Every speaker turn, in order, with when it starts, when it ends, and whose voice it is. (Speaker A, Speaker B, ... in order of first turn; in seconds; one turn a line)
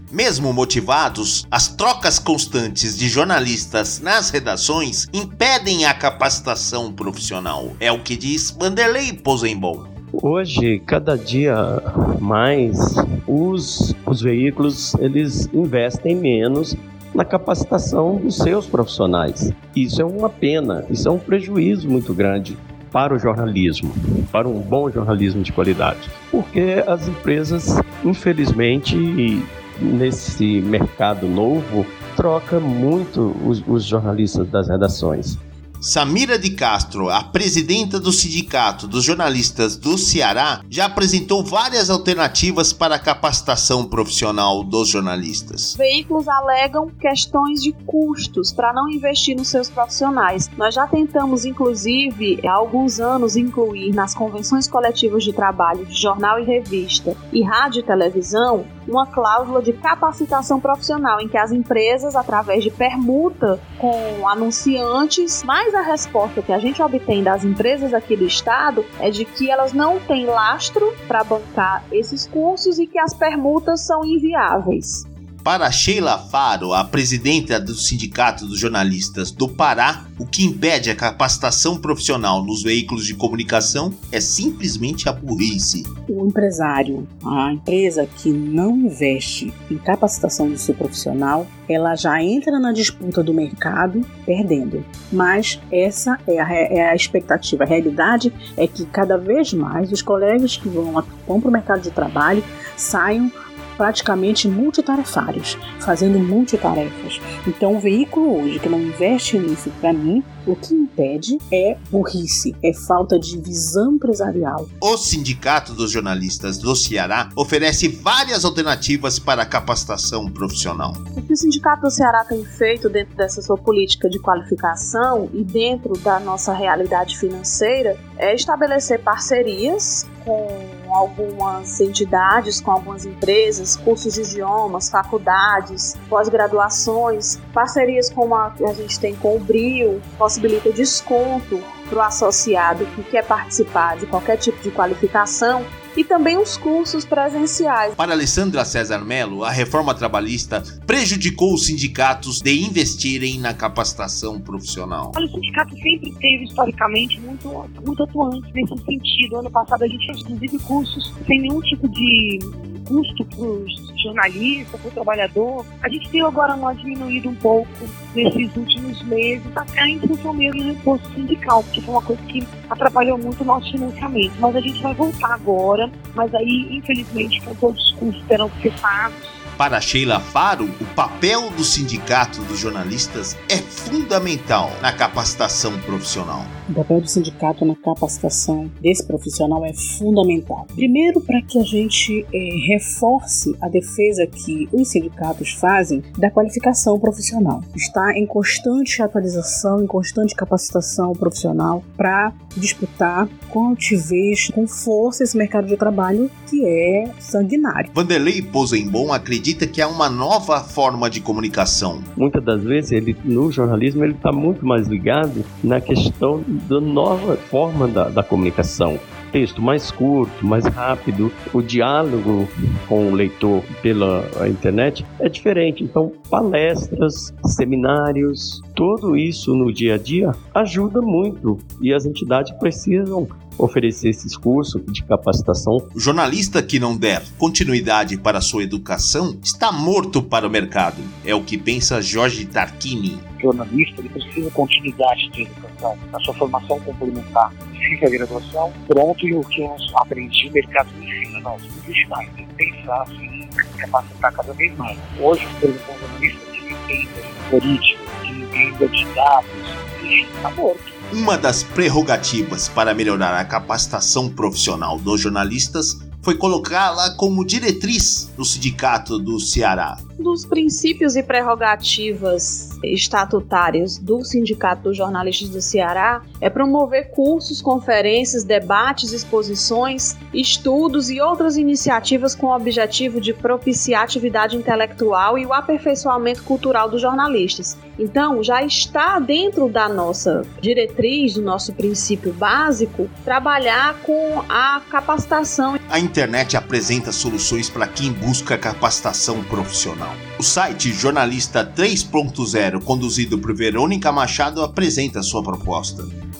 Speaker A: 0.1-9.9
Speaker B: 10.2-35.4
Speaker A: 35.8-45.8
Speaker C: 45.8-75.1
Speaker A: 75.4-85.9
Speaker D: 86.1-114.7
Speaker A: 114.8-121.0
Speaker C: 121.2-147.9
Speaker A: 148.0-155.1
Speaker E: 155.1-179.4
Speaker A: 179.6-186.5
Speaker D: 186.7-207.9
Speaker A: 207.9-212.1
Speaker B: 212.2-235.9
Speaker A: 235.9-243.3
Speaker F: 243.4-261.0
Speaker A: 261.1-270.0
Speaker C: 270.2-295.8
Speaker A: 295.9-306.1